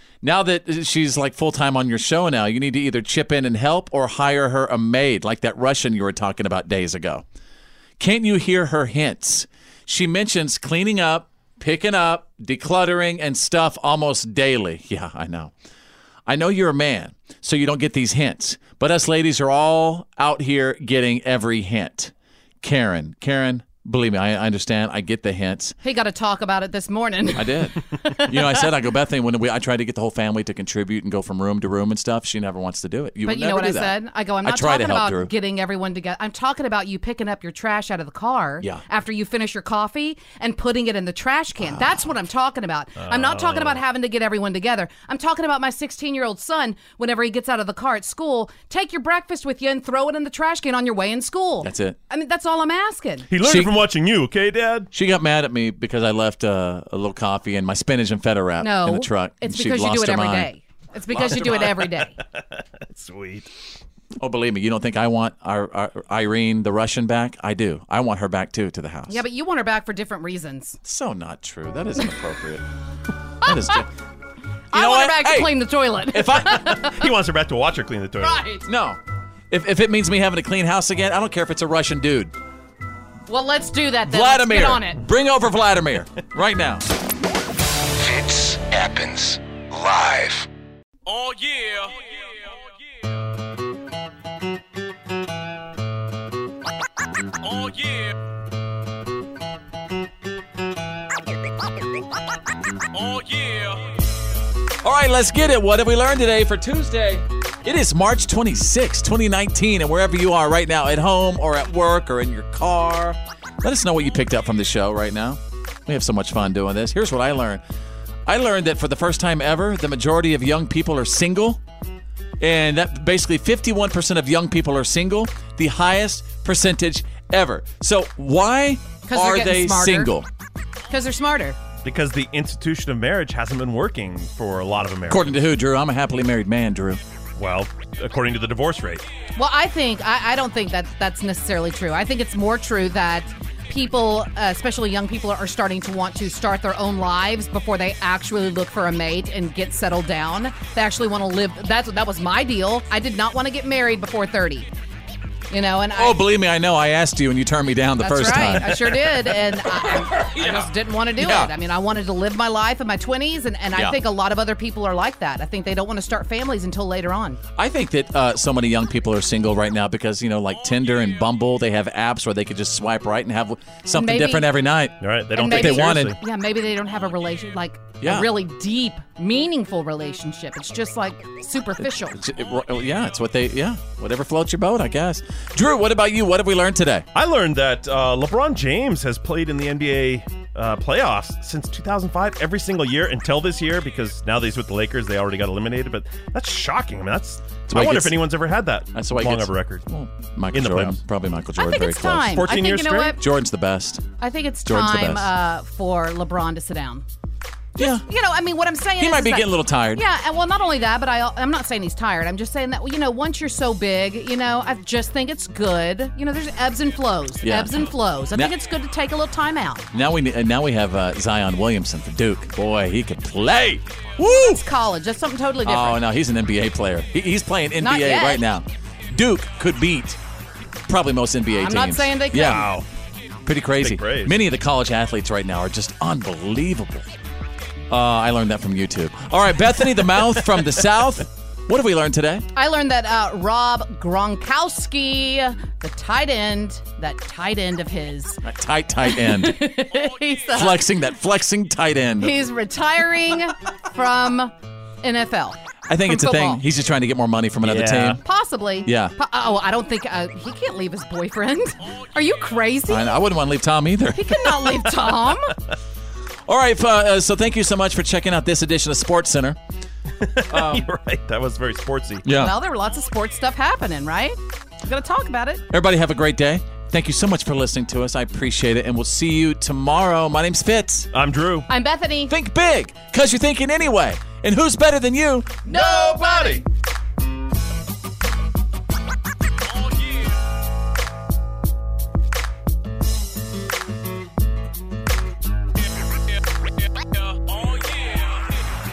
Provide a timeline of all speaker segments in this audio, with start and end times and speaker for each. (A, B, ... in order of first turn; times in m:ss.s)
0:00.2-0:07.2 A
0:08.0-0:15.5 A
0:16.3-0:25.8 A
0:25.8-0:28.7 B
0:27.4-0:35.3 A
0:33.2-0:53.3 B
0:41.6-0:42.1 A
0:43.0-0:43.8 C
0:51.6-0:52.0 A
0:53.3-0:54.9 C
0:53.4-0:53.7 A
0:54.9-1:00.5 A
0:58.6-1:02.2 B
1:01.1-1:02.2 C
1:02.9-1:03.5 C
1:04.2-1:09.2 A
1:09.1-1:10.8 B
1:10.8-1:12.6 A
1:13.4-1:13.9 A
1:13.5-1:13.8 B
1:14.7-1:15.6 A
1:14.7-1:17.0 B
1:16.1-1:16.6 A
1:16.6-1:18.4 C
1:18.2-1:18.6 B
1:18.7-1:19.0 A
1:19.5-1:22.3 A
1:23.3-1:25.0 B
1:24.1-1:26.8 A
1:28.0-1:30.5 D
1:31.1-1:33.2 E
1:37.4-1:38.1 E
1:42.9-1:44.0 E
1:44.8-1:57.6 A
1:58.3-2:01.6 A
2:02.4-2:10.3 A
2:09.1-2:10.1 B
2:10.9-2:11.6 B
2:11.8-2:15.4 C
2:15.1-2:17.0 A
2:17.4-2:19.0 C
2:19.4-2:34.7 B
2:35.5-2:36.2 B
2:36.0-2:40.7 A
2:38.0-2:47.4 B
2:41.2-2:41.5 A
2:47.6-2:56.2 A
2:50.6-2:51.3 E
2:53.9-2:54.5 B
2:55.0-2:56.2 C
2:55.4-3:02.2 B
2:58.0-2:58.3 A
3:01.8-3:07.1 A
3:07.1-3:19.8 C
3:17.7-3:18.2 A
3:18.9-3:22.5 A
3:20.5-3:21.0 C
3:21.6-3:23.2 B
3:22.4-3:23.2 C
3:23.2-3:24.0 A
3:24.2-3:27.0 B
3:24.7-3:25.3 A
3:27.8-3:28.0 A
3:27.8-3:39.9 B
3:29.0-3:30.0 A
3:37.4-3:38.5 A
3:39.9-3:44.6 A
3:44.2-3:46.0 B
3:45.6-3:50.2 A
3:47.8-3:48.4 B
3:50.9-3:52.7 A
3:51.5-3:52.7 B
3:52.4-3:52.9 C
3:53.4-3:57.1 A
3:53.8-3:54.4 C
3:57.9-4:02.4 A
4:02.6-4:08.4 B
4:08.4-4:09.6 A
4:09.0-4:10.8 B
4:10.5-4:12.3 A
4:12.2-4:16.6 B
4:15.9-4:18.2 A
4:17.6-4:18.2 C
4:18.2-4:23.2 B
4:18.8-4:19.1 A
4:21.9-4:22.4 E
4:22.9-4:24.8 A
4:24.2-4:25.5 B
4:26.5-4:29.6 A
4:30.2-4:32.2 C
4:30.5-4:30.9 A
4:32.2-4:32.5 A
4:32.3-4:35.6 B
4:35.7-4:41.1 A
4:41.1-4:41.7 C
4:41.7-4:42.3 B
4:42.3-4:45.6 A
4:45.7-4:46.6 B
4:45.7-4:46.6 C
4:49.6-4:50.4 E
4:57.2-4:58.5 E